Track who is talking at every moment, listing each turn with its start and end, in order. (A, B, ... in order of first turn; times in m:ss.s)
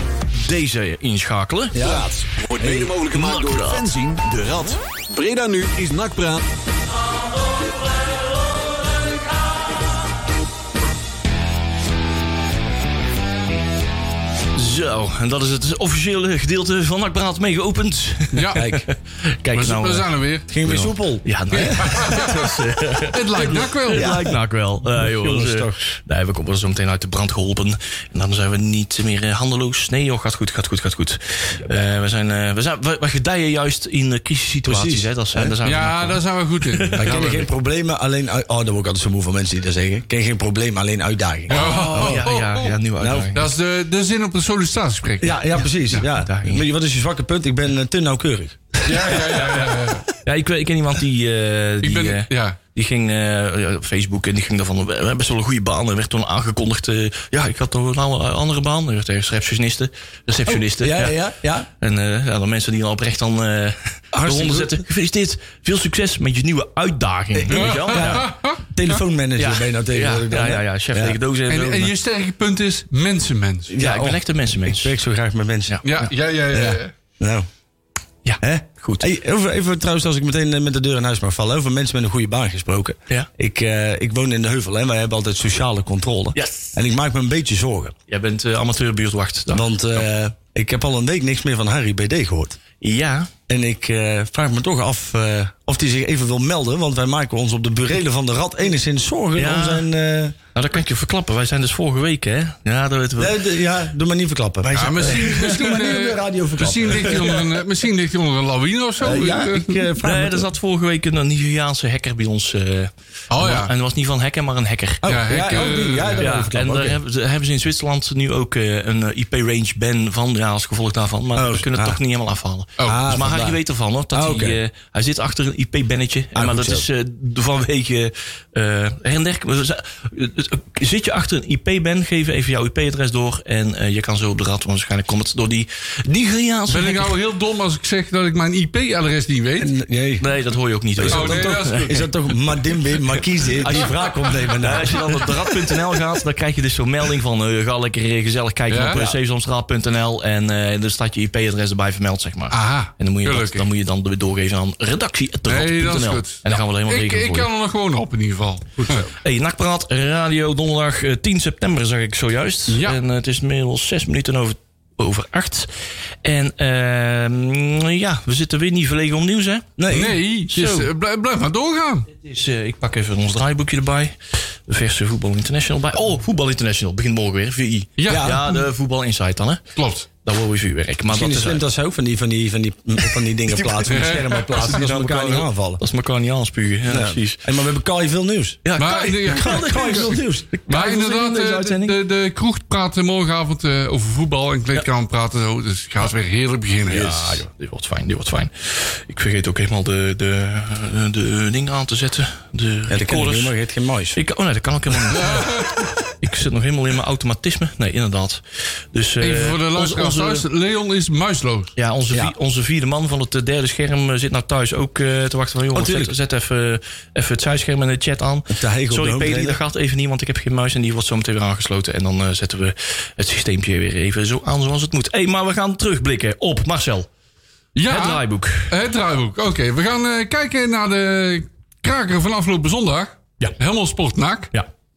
0:00.4-0:01.8 A
0:01.7-0:02.1 B
0:01.8-0:06.4 C
0:02.6-0:02.9 B
0:03.1-0:03.9 A
0:14.5-0:20.1 A
0:18.3-0:18.6 D
0:18.6-0:18.8 B
0:19.5-0:20.5 D
0:20.5-0:21.9 B
0:20.6-0:37.4 A
0:21.5-0:22.5 D
0:23.1-0:24.1 D
0:23.9-0:25.8 B
0:34.6-0:35.5 B
0:35.6-0:37.4 D
0:37.0-0:42.3 B
0:41.5-0:42.7 D
0:41.5-0:43.5 A
0:43.0-0:43.3 B
0:43.3-0:46.0 D
0:45.2-0:49.4 B
0:46.0-0:46.6 A
0:48.8-0:50.0 D
0:50.1-1:01.2 A
0:51.8-0:52.6 D
1:00.5-1:01.7 B
1:01.7-1:08.3 A
1:04.1-1:04.8 B
1:07.3-1:11.2 B
1:07.5-1:08.6 D
1:09.4-1:11.9 A
1:11.5-1:13.7 D
1:13.7-1:15.8 B
1:13.8-1:14.9 A
1:15.7-1:16.1 A
1:15.8-1:16.9 D
1:16.5-1:17.5 B
1:18.2-1:19.1 A
1:18.4-1:27.9 B
1:26.3-1:26.8 A
1:28.1-1:30.0 A
1:29.5-1:32.6 B
1:32.8-1:33.3 A
1:33.5-1:40.4 B
1:39.4-1:39.8 A
1:40.5-1:43.4 A
1:43.2-1:47.5 B
1:44.7-1:45.6 A
1:44.7-1:49.8 D
1:49.0-1:50.5 B
1:50.0-1:55.1 A
1:53.3-1:53.7 D
1:55.0-1:57.0 B
1:55.0-1:56.3 D
1:56.2-2:17.1 A
2:01.4-2:02.0 B
2:02.8-2:03.0 D
2:02.8-2:03.6 B
2:04.1-2:04.6 B
2:06.3-2:06.8 B
2:16.7-2:19.7 D
2:19.6-2:20.2 B
2:20.2-2:22.0 A
2:21.0-2:25.3 B
2:21.1-2:22.0 D
2:23.6-2:37.5 A
2:28.7-2:29.0 D
2:32.5-2:33.7 D
2:35.5-2:39.1 D
2:39.1-2:45.7 A
2:42.7-2:43.0 D
2:46.2-2:49.8 A
2:49.8-2:50.2 B
2:49.9-2:52.1 D
2:50.5-2:50.9 A
2:52.1-2:54.2 A
2:54.7-2:59.6 A
2:58.0-2:58.4 D
2:58.1-2:58.5 B
2:59.8-3:00.1 D
3:00.2-3:01.6 A
3:01.1-3:05.8 B
3:03.8-3:04.8 D
3:04.5-3:07.4 A
3:06.9-3:08.6 B
3:08.6-3:12.0 A
3:08.8-3:10.1 D
3:09.3-3:10.6 B
3:10.7-3:17.4 D
3:16.9-3:23.5 A
3:22.9-3:24.2 B
3:24.1-3:30.4 A
3:25.1-3:25.9 D
3:29.2-3:31.7 D
3:31.8-3:47.1 A
3:35.7-3:36.1 B
3:38.5-3:39.6 B
3:47.7-3:54.5 D
3:47.8-3:48.7 A